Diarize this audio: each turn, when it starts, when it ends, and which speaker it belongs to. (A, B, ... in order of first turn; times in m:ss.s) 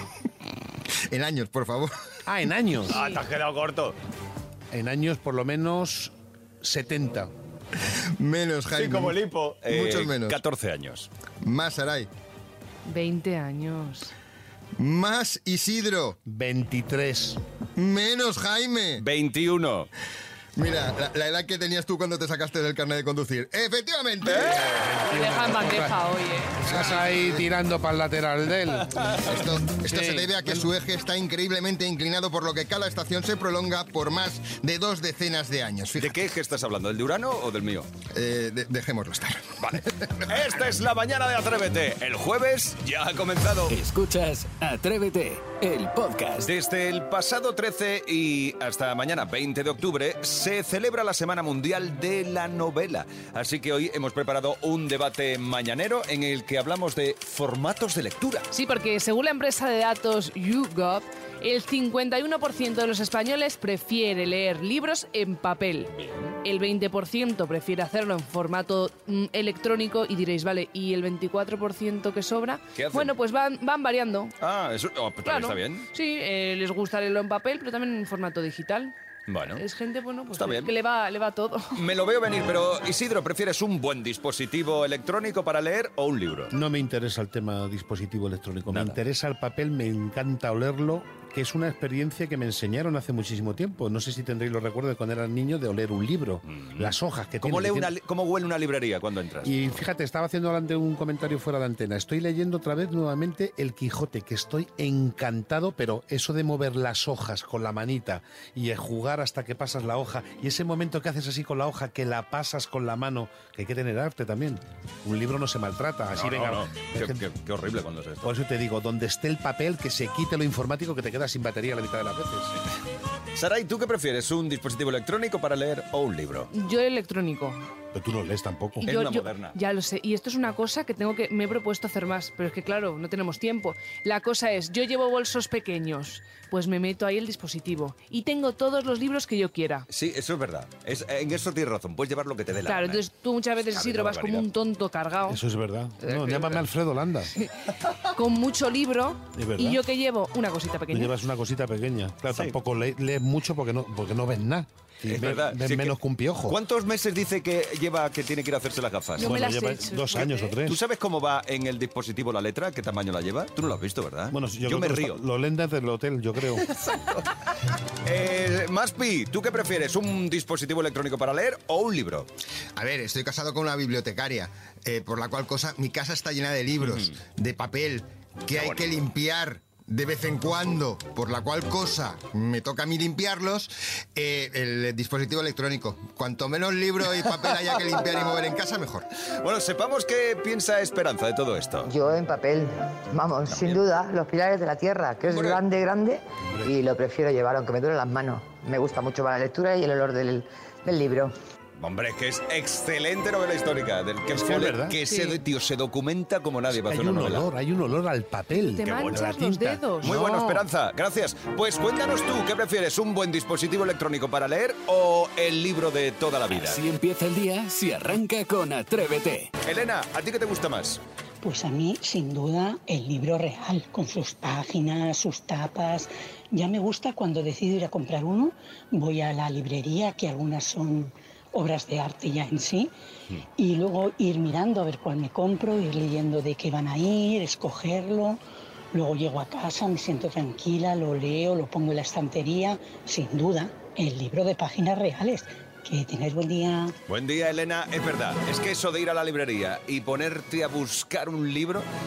0:01.1-0:01.9 A
0:02.3-0:03.0 B
0:02.9-0:04.0 C
0:02.9-0:03.2 D
0:04.7-0:07.3 B
0:08.2-0:10.4 A
0:08.7-0:11.1 C
0:11.4-0:12.1 A
0:12.8-0:14.1 D
0:14.8-0:16.2 A
0:16.3-0:17.4 B
0:17.8-0:19.0 A
0:19.0-0:19.9 C
0:20.6-0:24.7 A
0:24.2-0:24.8 C
0:24.7-0:26.0 B
0:25.0-0:26.6 D
0:26.6-0:28.9 B
0:26.7-0:27.5 A
0:29.2-0:36.2 A
0:29.9-0:30.7 B
0:36.0-0:37.9 C
0:38.1-0:40.3 A
0:39.6-0:43.8 C
0:43.7-0:46.5 E
0:46.4-0:58.5 C
0:58.5-1:14.3 D
1:06.0-1:06.3 C
1:12.8-1:13.1 C
1:14.4-1:15.9 C
1:15.2-1:18.9 D
1:19.3-1:19.6 C
1:19.6-1:21.8 D
1:20.3-1:20.7 C
1:21.7-1:26.5 C
1:26.5-1:37.9 B
1:28.7-1:29.0 C
1:36.5-1:39.5 C
1:39.4-1:57.2 B
1:56.1-1:58.4 C
1:58.2-2:02.5 B
2:03.3-2:06.5 C
2:06.5-2:07.7 D
2:07.9-2:08.8 B
2:08.8-2:09.6 C
2:08.8-2:19.9 D
2:19.9-2:23.0 C
2:22.6-2:25.4 D
2:23.7-2:24.5 C
2:25.3-2:27.3 B
2:26.0-2:26.5 D
2:28.1-2:31.1 D
2:29.4-2:29.8 B
2:30.9-2:36.6 B
2:32.3-2:32.6 C
2:35.0-2:39.4 C
2:39.2-2:40.5 D
2:39.2-2:40.8 B
2:40.6-2:45.2 C
2:44.3-2:46.7 B
2:46.7-2:47.3 C
2:48.0-2:52.3 C
2:52.8-3:09.0 A
2:56.8-2:57.1 C
2:58.5-2:59.1 C
3:09.4-3:11.9 C
3:11.8-3:21.3 F
3:13.5-3:13.8 C
3:15.3-3:15.6 C
3:21.8-3:27.5 C
3:24.3-3:25.0 B
3:25.0-3:25.4 D
3:26.7-3:30.2 B
3:28.5-3:30.6 D
3:28.9-3:29.2 C
3:30.0-3:36.8 C
3:36.5-3:39.5 E
3:39.6-3:41.0 C
3:41.4-3:52.9 G
3:53.6-3:58.4 G
3:58.9-4:06.9 G
4:07.1-4:11.9 C